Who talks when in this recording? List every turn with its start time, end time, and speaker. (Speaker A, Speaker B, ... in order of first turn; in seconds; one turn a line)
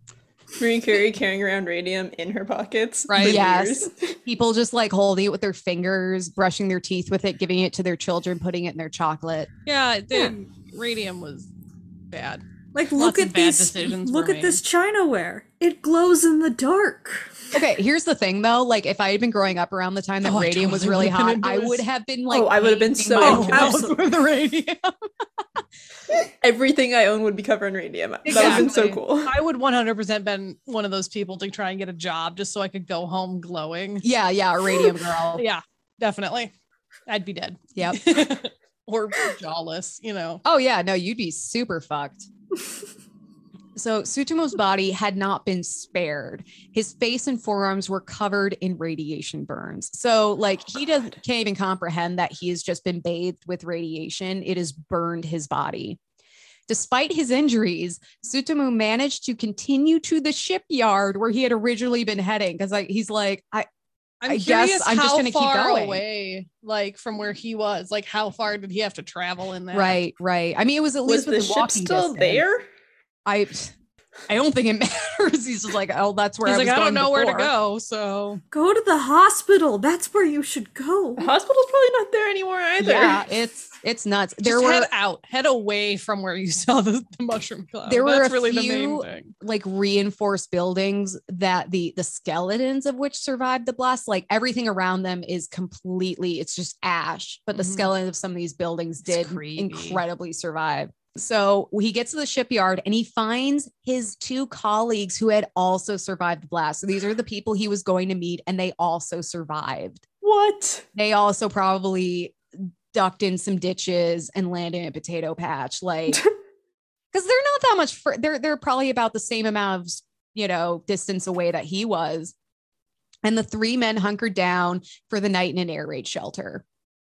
Speaker A: 0.6-4.2
Speaker B: 3.1-3.4
Speaker C: 3.2-9.5
Speaker B: 9.7-11.5
Speaker B: 12.1-12.4
Speaker D: 12.7-17.3
Speaker B: 13.0-14.6
Speaker C: 17.5-24.9
Speaker B: 20.2-21.8
Speaker A: 22.3-23.8
Speaker B: 23.2-24.1
Speaker D: 23.2-23.9
Speaker A: 26.4-29.3
Speaker C: 28.2-29.0
Speaker B: 28.3-34.1
Speaker C: 34.0-35.5
Speaker B: 35.4-36.5
Speaker B: 37.1-40.4
Speaker C: 37.8-38.1
Speaker C: 40.4-42.3
Speaker C: 43.8-56.0
Speaker C: 56.7-63.7
Speaker B: 64.2-70.0
Speaker C: 64.3-66.0
Speaker C: 69.7-72.5
Speaker A: 71.1-72.7
Speaker C: 73.3-73.7
Speaker C: 74.3-77.5
Speaker B: 76.5-78.4
Speaker D: 78.5-81.3
Speaker A: 81.2-83.2
Speaker C: 82.8-84.9
Speaker B: 84.4-89.3
Speaker C: 87.9-110.0
Speaker B: 97.5-97.9
Speaker B: 99.1-100.0
Speaker A: 110.2-110.9
Speaker C: 111.0-116.2
Speaker C: 117.1-122.3
Speaker C: 123.2-126.6